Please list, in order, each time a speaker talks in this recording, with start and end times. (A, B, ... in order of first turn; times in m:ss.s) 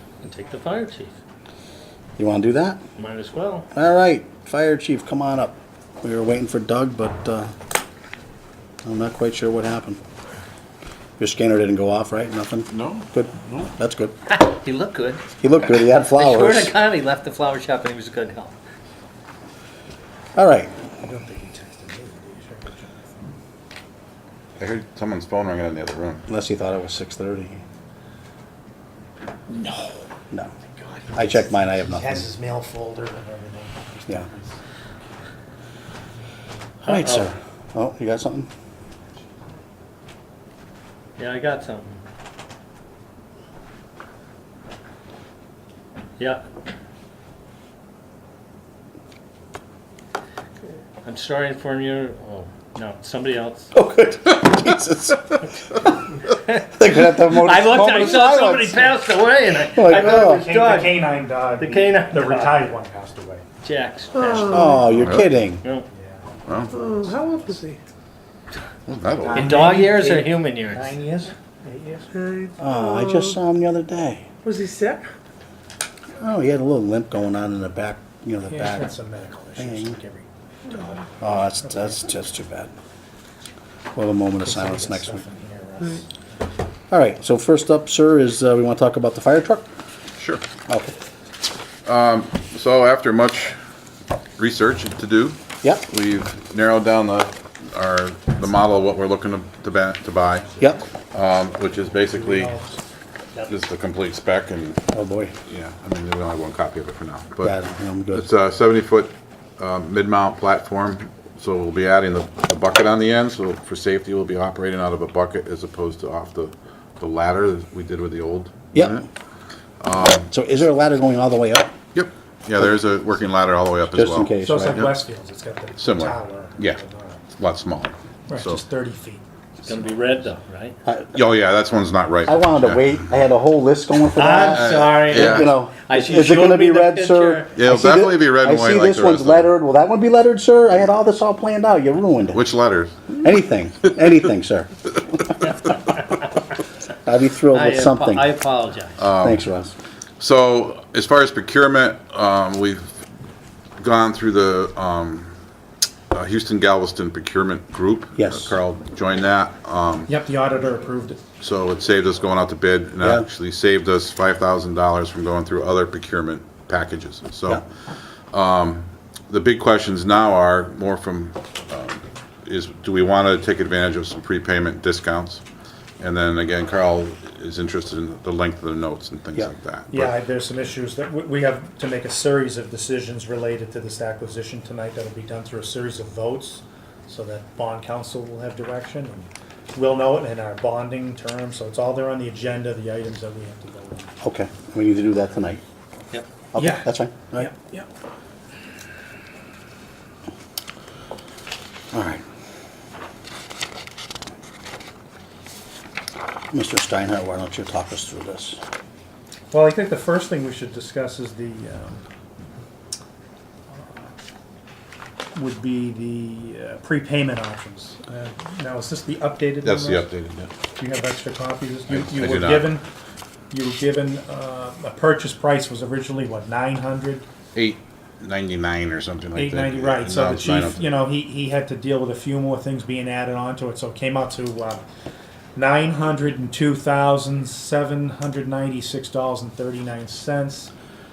0:00.2-0:01.2 A
0:02.2-0:02.8 B
0:03.0-0:03.7 A
0:03.7-0:07.5 B
0:08.8-0:10.0 B
0:11.2-0:14.2 B
0:12.7-0:13.7 C
0:14.3-0:15.2 A
0:15.4-0:16.8 B
0:16.0-0:18.6 A
0:20.4-0:20.7 B
0:21.0-0:23.3 D
0:24.6-0:26.2 C
0:26.3-0:27.6 B
0:29.5-0:29.9 D
0:30.7-0:34.6 D
0:31.1-0:32.3 B
0:36.8-0:37.3 A
0:36.8-0:38.5 B
0:41.2-0:42.0 A
0:46.2-0:46.4 A
0:51.0-0:53.7 A
0:53.7-0:55.5 B
0:56.3-1:02.6 A
0:56.7-0:59.0 B
0:59.7-1:00.5 B
1:00.0-1:03.4 D
1:03.6-1:04.8 A
1:04.2-1:04.8 E
1:04.4-1:05.6 B
1:04.8-1:05.3 C
1:05.9-1:07.5 D
1:06.5-1:06.8 C
1:06.8-1:07.8 E
1:08.9-1:09.7 C
1:09.2-1:12.1 D
1:09.3-1:11.0 A
1:12.2-1:13.2 E
1:12.6-1:14.3 B
1:14.4-1:15.1 E
1:16.2-1:18.9 B
1:18.5-1:22.0 D
1:19.6-1:20.0 B
1:21.2-1:22.7 B
1:24.0-1:25.2 B
1:24.4-1:26.1 D
1:26.9-1:29.7 B
1:30.2-1:30.4 C
1:30.7-1:30.9 B
1:31.9-1:33.6 C
1:34.4-1:40.6 C
1:41.1-1:42.6 C
1:41.7-1:42.8 D
1:43.5-1:44.8 C
1:44.9-1:45.3 B
1:45.5-1:47.6 C
1:47.4-1:48.3 B
1:48.1-1:59.0 C
1:58.7-1:59.0 B
1:59.8-2:00.3 C
2:00.3-2:01.7 B
2:01.9-2:04.3 C
2:03.9-2:05.0 B
2:04.4-2:07.2 D
2:05.8-2:06.8 C
2:07.4-2:08.6 C
2:08.3-2:10.3 D
2:09.6-2:10.8 A
2:10.9-2:11.2 B
2:11.2-2:12.8 C
2:12.2-2:22.4 B
2:14.2-2:17.6 A
2:14.5-2:15.5 C
2:17.6-2:19.5 C
2:22.3-2:23.1 C
2:23.1-2:25.4 B
2:25.7-2:26.2 A
2:27.0-2:28.3 B
2:27.5-2:29.0 A
2:29.0-2:29.4 C
2:29.2-2:29.7 B
2:30.2-2:33.0 C
2:33.8-2:35.3 C
2:36.1-2:40.1 C
2:38.2-2:38.6 B
2:40.1-2:41.2 D
2:41.4-2:47.6 C
2:43.0-2:43.3 B
2:48.3-2:55.4 C
2:56.0-3:00.2 C
2:59.9-3:14.1 D
3:14.2-3:15.6 B
3:16.5-3:17.5 B
3:16.6-3:17.9 D
3:21.9-3:22.2 B
3:26.5-3:28.6 B
3:29.5-3:32.0 D
3:33.7-3:34.1 D
3:35.3-3:40.1 D
3:39.6-3:40.5 C
3:40.8-3:42.8 D
3:41.9-3:42.7 C
3:43.5-3:47.3 D
3:47.6-3:50.8 C
3:49.4-3:54.8 D
3:55.6-4:00.7 D